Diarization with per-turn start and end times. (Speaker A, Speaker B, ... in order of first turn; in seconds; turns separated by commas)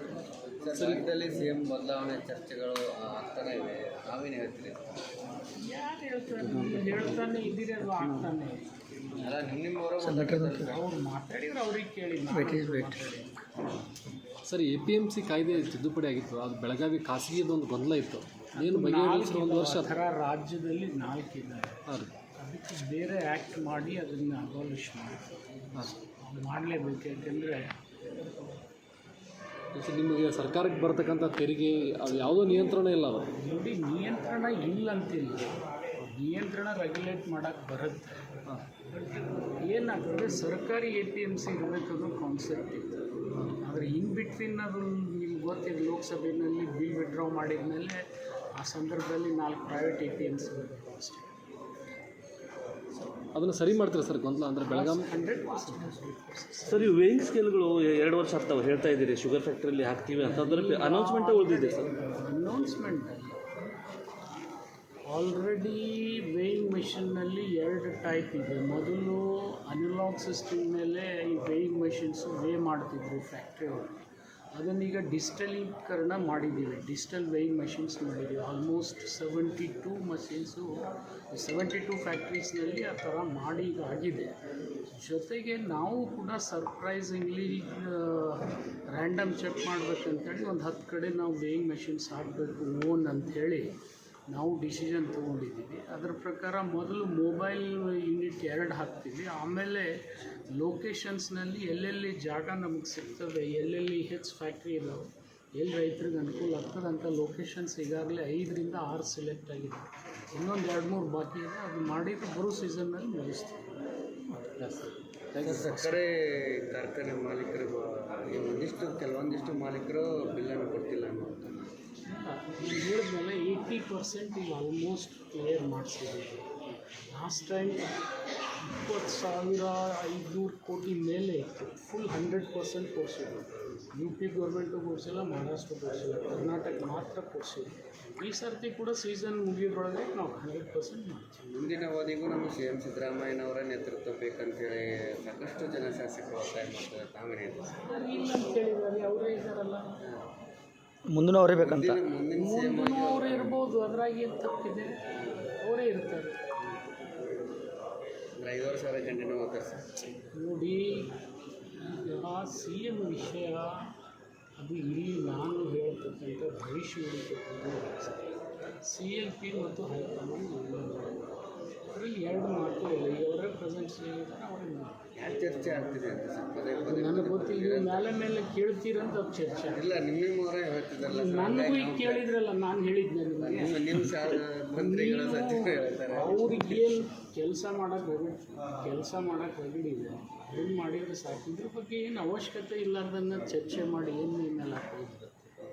Speaker A: 0.5-4.8, Speaker B: 0.7-1.1, Speaker C: 5.5-8.9, Speaker D: 6.4-8.3, Speaker A: 9.2-10.8, Speaker D: 10.0-10.8, Speaker C: 10.6-13.4, Speaker D: 12.3-13.0, Speaker B: 14.5-19.9, Speaker C: 18.5-21.8, Speaker C: 22.4-27.8, Speaker B: 29.7-33.3, Speaker C: 33.3-38.3, Speaker C: 39.5-51.3, Speaker B: 53.3-55.1, Speaker C: 54.6-57.0, Speaker E: 56.7-61.9, Speaker C: 60.2-63.4, Speaker C: 65.1-84.4, Speaker C: 84.9-93.7, Speaker C: 94.3-113.7, Speaker B: 114.4-116.0, Speaker A: 115.4-121.7, Speaker C: 122.1-126.5, Speaker C: 127.1-127.9, Speaker C: 128.6-141.5, Speaker A: 141.4-147.8, Speaker C: 147.7-150.0, Speaker D: 151.1-152.0, Speaker A: 151.6-153.6, Speaker C: 152.4-155.1, Speaker C: 155.6-156.4, Speaker A: 156.6-157.0, Speaker A: 158.4-159.9, Speaker C: 160.3-161.1, Speaker C: 161.8-163.9, Speaker C: 164.6-168.3, Speaker C: 168.8-171.2, Speaker C: 171.9-175.1, Speaker A: 175.2-178.1, Speaker C: 176.8-179.9, Speaker A: 179.7-182.3, Speaker C: 181.1-195.6, Speaker A: 183.4-187.0